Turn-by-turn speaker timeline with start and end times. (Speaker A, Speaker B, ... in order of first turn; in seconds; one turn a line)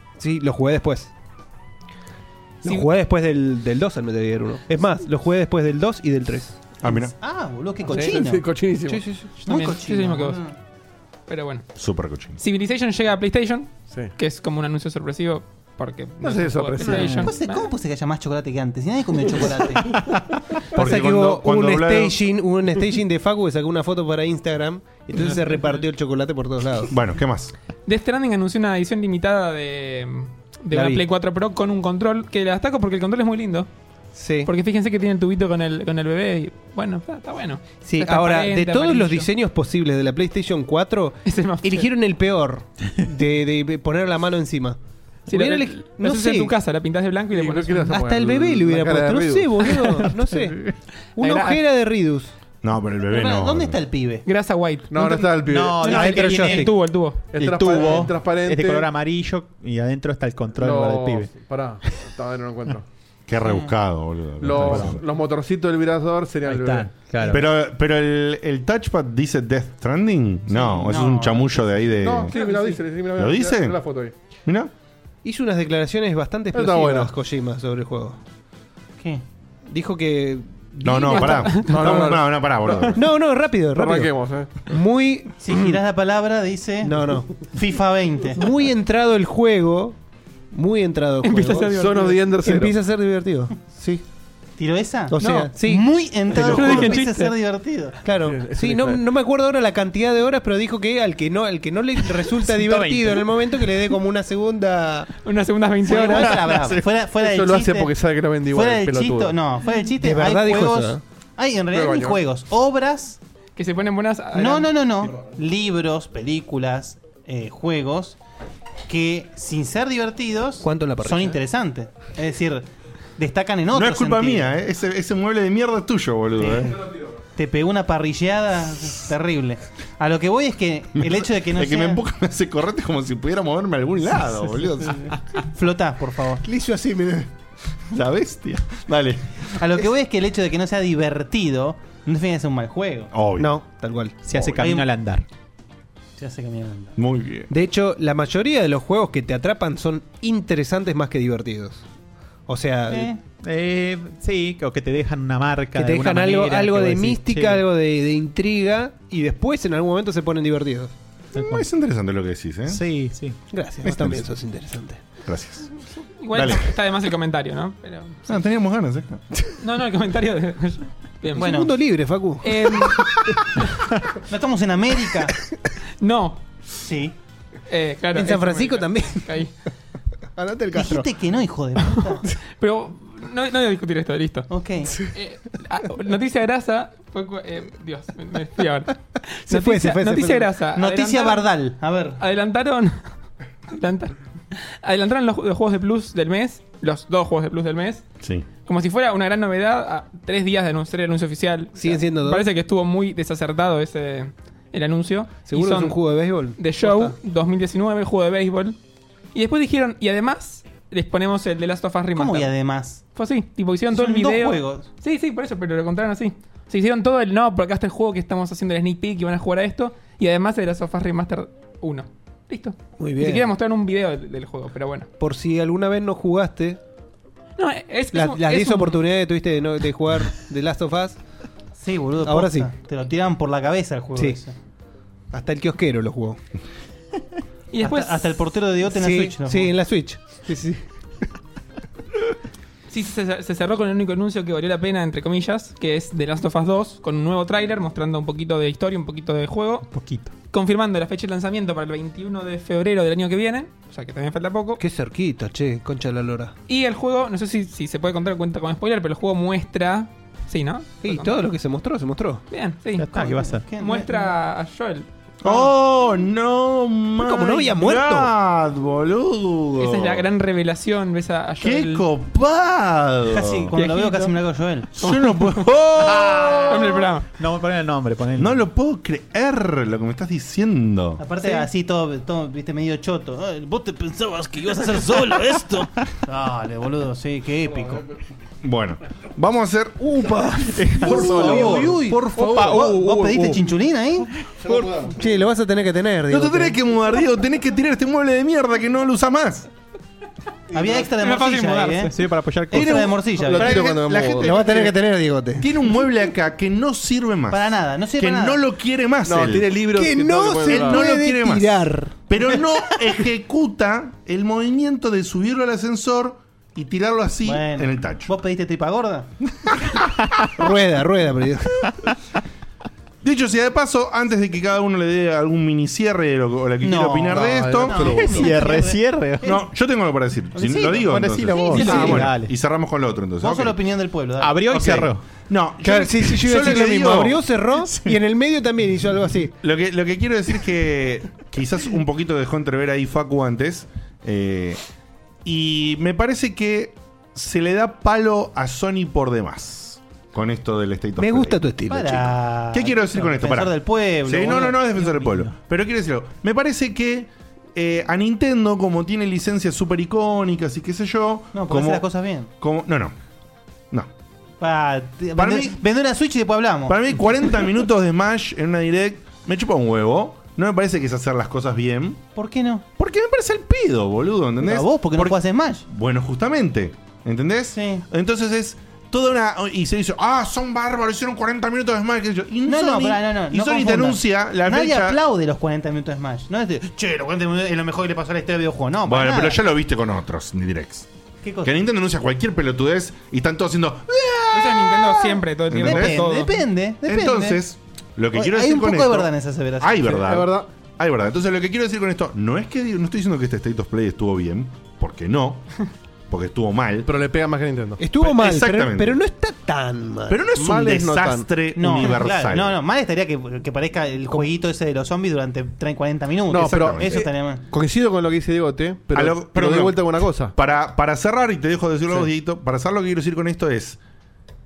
Speaker A: 0.2-1.1
Speaker A: 2.6-6.6
Speaker B: 6.8-7.1
Speaker C: 6.8-8.4
Speaker D: 7.9-9.3
Speaker A: 8.9-9.2
Speaker E: 9.4-10.4
Speaker C: 9.4-10.5
Speaker E: 11.3-11.7
Speaker B: 11.8-12.4
Speaker E: 12.4-17.7
Speaker D: 13.9-14.1
Speaker D: 16.2-17.2
Speaker F: 16.8-17.3
Speaker C: 17.1-19.9
Speaker A: 20.7-26.9
Speaker B: 20.7-22.2
Speaker B: 26.9-27.5
Speaker E: 27.9-33.7
Speaker A: 30.7-31.0
Speaker A: 34.1-34.5
Speaker E: 34.4-39.3
Speaker A: 37.8-46.5
Speaker E: 41.2-41.9
Speaker E: 45.3-47.9
Speaker D: 47.3-49.7
Speaker A: 47.9-52.3
Speaker F: 50.0-50.7
Speaker E: 51.2-51.6
Speaker B: 52.6-53.8
Speaker C: 53.1-54.2
Speaker E: 54.2-55.2
Speaker D: 54.9-56.0
Speaker F: 55.4-56.8
Speaker E: 55.8-57.2
Speaker A: 55.9-56.7
Speaker D: 57.3-58.9
Speaker F: 57.3-61.3
Speaker D: 60.5-62.8
Speaker B: 63.3-65.0
Speaker C: 63.4-63.7
Speaker D: 64.4-67.0
Speaker F: 64.5-65.0
Speaker F: 66.5-67.4
Speaker B: 67.3-72.3
Speaker C: 70.5-71.7
Speaker D: 72.0-74.1
Speaker E: 72.3-72.8
Speaker B: 73.2-73.8
Speaker B: 74.5-74.7
Speaker A: 75.2-78.2
Speaker D: 76.5-77.1
Speaker A: 79.7-82.0
Speaker B: 80.8-83.0
Speaker E: 81.1-81.8
Speaker D: 81.7-82.7
Speaker A: 82.9-84.2
Speaker D: 83.7-84.6
Speaker A: 84.7-85.8
Speaker C: 85.4-88.4
Speaker A: 86.8-87.3
Speaker A: 88.3-90.0
Speaker A: 90.5-91.8
Speaker E: 91.2-92.2
Speaker D: 91.7-92.8
Speaker A: 92.3-94.0
Speaker C: 94.6-98.0
Speaker A: 95.1-97.0
Speaker E: 95.2-95.5
Speaker E: 96.4-97.3
Speaker A: 98.0-105.1
Speaker D: 98.2-99.0
Speaker F: 102.5-103.3
Speaker E: 105.2-106.5
Speaker C: 105.8-107.9
Speaker A: 105.9-106.3
Speaker D: 107.2-109.3
Speaker C: 108.5-113.2
Speaker A: 110.0-111.0
Speaker D: 111.7-112.2
Speaker E: 113.5-114.7
Speaker C: 114.3-118.2
Speaker C: 118.9-124.5
Speaker A: 120.6-121.4
Speaker B: 123.7-126.8
Speaker C: 126.4-126.7
Speaker C: 127.3-132.0
Speaker B: 131.0-135.0
Speaker C: 135.5-136.4
Speaker A: 136.4-137.3
Speaker B: 137.9-139.2
Speaker C: 139.6-143.1
Speaker B: 143.1-143.5
Speaker A: 143.4-144.2
Speaker F: 144.2-145.2
Speaker C: 144.5-144.8
Speaker C: 146.2-147.0
Speaker B: 147.0-147.5
Speaker A: 147.5-151.8
Speaker A: 152.5-153.1
Speaker C: 152.9-153.2
Speaker F: 153.4-157.6
Speaker A: 155.7-160.9
Speaker F: 161.3-161.7
Speaker B: 161.3-162.8
Speaker F: 162.7-163.4
Speaker A: 163.5-165.0
Speaker B: 163.8-164.2
Speaker B: 165.2-165.7
Speaker E: 166.2-168.4
Speaker B: 166.3-166.7
Speaker B: 168.3-169.2
Speaker E: 169.6-171.5
Speaker C: 171.4-171.7
Speaker A: 171.4-172.9
Speaker E: 172.4-173.6
Speaker C: 174.3-175.3
Speaker E: 176.0-176.4
Speaker C: 176.8-177.1
Speaker E: 177.7-179.5
Speaker A: 178.1-179.3
Speaker A: 180.3-181.1
Speaker C: 180.7-182.2
Speaker E: 182.5-184.5
Speaker C: 184.5-184.9
Speaker E: 185.1-191.5
Speaker A: 189.5-190.5
Speaker C: 190.8-192.2
Speaker E: 192.2-193.1
Speaker E: 193.7-198.1
Speaker B: 198.2-198.5
Speaker E: 198.6-208.8
Speaker A: 201.8-202.5
Speaker A: 205.4-207.1
Speaker E: 209.3-212.5
Speaker C: 212.1-213.0
Speaker E: 213.1-225.1
Speaker C: 213.9-214.9
Speaker A: 223.0-223.5
Speaker A: 225.2-226.8
Speaker E: 227.6-229.0
Speaker A: 228.1-231.2
Speaker C: 231.8-234.5
Speaker A: 232.2-232.7
Speaker A: 235.3-236.4
Speaker E: 237.7-238.3
Speaker C: 237.8-239.7
Speaker A: 238.9-240.8
Speaker E: 242.9-249.9
Speaker F: 249.9-250.3
Speaker E: 250.5-254.8
Speaker A: 254.8-256.5
Speaker E: 256.7-261.4
Speaker A: 261.0-262.4
Speaker E: 262.5-263.1
Speaker F: 263.0-263.6
Speaker C: 263.1-264.3
Speaker E: 263.8-265.7
Speaker B: 265.4-270.2
Speaker A: 267.2-268.3
Speaker E: 269.8-272.0
Speaker B: 271.6-273.7
Speaker C: 273.3-274.9
Speaker E: 273.7-274.3
Speaker B: 274.9-277.0
Speaker E: 275.0-275.6
Speaker E: 276.7-277.3
Speaker F: 277.4-278.6
Speaker B: 278.4-281.2
Speaker C: 281.2-288.0
Speaker B: 288.6-292.9
Speaker A: 290.0-291.9
Speaker C: 291.1-294.3
Speaker F: 292.4-293.4
Speaker D: 294.6-295.1
Speaker A: 295.1-296.8
Speaker B: 296.3-299.7
Speaker C: 300.7-302.1
Speaker E: 301.2-302.1
Speaker F: 302.1-303.2
Speaker C: 302.7-303.8
Speaker B: 302.7-304.9
Speaker D: 303.4-304.5
Speaker A: 304.4-305.6
Speaker B: 305.6-309.7
Speaker C: 307.5-308.6
Speaker D: 309.2-311.0
Speaker A: 309.9-312.2
Speaker B: 310.7-318.3
Speaker C: 317.4-319.3
Speaker A: 320.6-321.9
Speaker B: 323.2-328.2
Speaker C: 326.8-329.6
Speaker D: 327.3-328.4
Speaker F: 328.2-329.5
Speaker B: 329.4-333.8
Speaker C: 330.6-331.0
Speaker F: 330.6-332.5
Speaker C: 331.6-332.3
Speaker C: 333.4-334.6
Speaker F: 334.4-335.2
Speaker B: 334.7-337.4
Speaker A: 335.8-339.5
Speaker B: 339.6-344.8
Speaker B: 345.4-351.6
Speaker A: 351.2-352.3
Speaker C: 351.9-355.1
Speaker B: 352.7-353.7
Speaker B: 354.2-362.0
Speaker C: 361.5-362.5
Speaker B: 362.6-363.1
Speaker C: 364.6-367.0
Speaker B: 365.4-365.8
Speaker B: 366.9-372.2
Speaker C: 372.4-372.8
Speaker B: 373.0-385.2
Speaker C: 374.6-375.8
Speaker C: 377.7-378.0
Speaker C: 382.6-389.6
Speaker B: 389.1-391.1
Speaker C: 391.4-391.7
Speaker B: 391.6-396.2
Speaker E: 394.5-396.5
Speaker C: 395.8-397.6
Speaker B: 397.1-405.7
Speaker C: 398.3-400.2
Speaker D: 400.1-400.7
Speaker B: 406.3-407.1
Speaker D: 407.1-408.0
Speaker A: 408.0-410.5
Speaker B: 408.2-409.2
Speaker B: 410.3-412.8
Speaker D: 410.6-411.4
Speaker C: 411.7-417.6
Speaker D: 416.5-420.5
Speaker B: 416.6-417.2
Speaker B: 419.1-424.0